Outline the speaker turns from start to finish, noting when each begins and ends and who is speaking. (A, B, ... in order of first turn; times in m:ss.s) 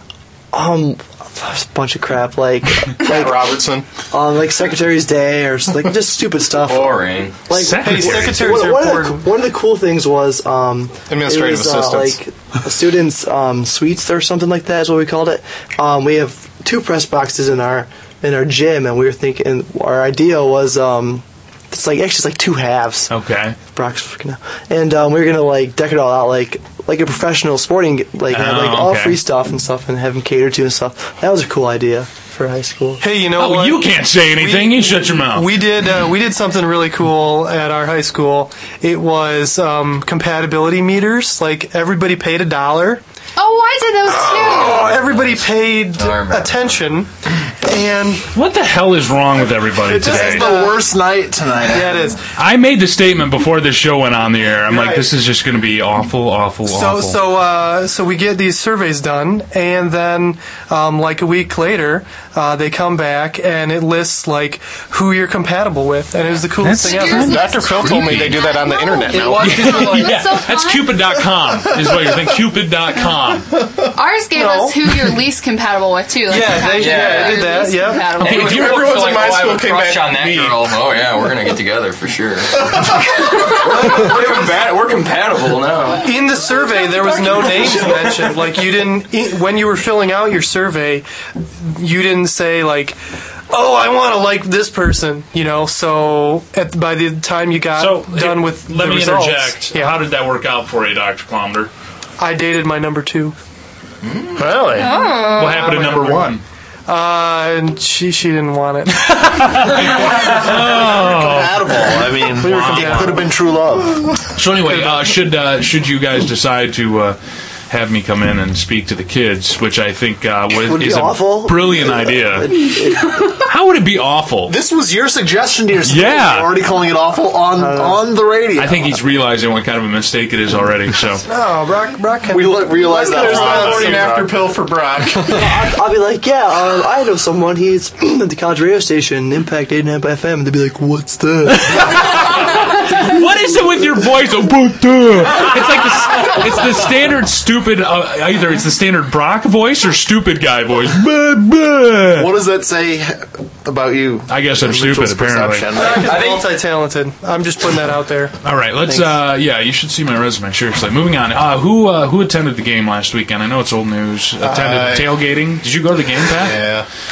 0:00.5-0:03.4 A
0:03.0-0:03.8 B
0:04.1-0:23.1 A
0:06.6-0:07.4 C
0:07.5-0:08.5 D
0:07.8-0:09.2 E
0:11.1-0:12.2 B
0:23.1-0:23.6 D
0:23.7-0:33.0 A
0:28.3-0:29.2 D
0:33.0-0:43.0 E
0:33.4-0:35.5 D
0:43.4-0:44.9 F
0:44.1-0:47.1 E
0:44.7-0:46.8 C
0:47.6-0:48.3 E
0:48.3-0:50.5 D
0:49.8-0:52.1 G
0:50.0-0:50.8 E
0:51.7-0:52.2 E
0:52.4-0:57.2 D
0:54.7-0:55.0 E
0:56.6-1:07.4 E
1:06.6-1:08.4 D
1:06.8-1:11.2 F
1:07.3-1:09.6 B
1:09.1-1:10.2 C
1:09.4-1:13.6 D
1:13.9-1:18.9 F
1:14.3-1:14.8 E
1:16.3-1:18.1 E
1:16.8-1:17.5 C
1:18.2-1:18.8 D
1:18.2-1:22.8 C
1:18.2-1:20.7 B
1:22.6-1:23.0 B
1:23.4-1:26.1 C
1:26.0-1:31.0 E
1:27.0-1:28.4 C
1:31.6-1:33.0 E
1:33.5-1:40.0 E
1:37.7-1:41.7 D
1:42.2-1:43.4 E
1:44.4-1:46.4 D
1:44.7-1:45.8 F
1:45.6-1:46.3 E
1:46.9-1:49.6 E
1:48.9-1:53.2 D
1:50.0-1:54.2 G
1:52.3-1:53.3 E
1:54.3-1:57.2 D
1:54.7-1:55.0 E
1:57.7-2:02.8 D
2:00.6-2:03.3 A
2:03.3-2:04.6 D
2:04.5-2:09.0 G
2:05.8-2:06.6 D
2:07.5-2:08.0 A
2:08.6-2:11.2 D
2:11.2-2:14.0 E
2:12.3-2:14.4 G
2:12.8-2:15.4 B
2:15.3-2:21.9 A
2:21.7-2:32.3 D
2:32.1-2:36.3 G
2:34.3-2:35.7 D
2:35.7-2:38.3 E
2:36.0-2:36.5 C
2:38.4-2:46.6 D
2:44.4-2:45.1 B
2:46.3-2:46.8 B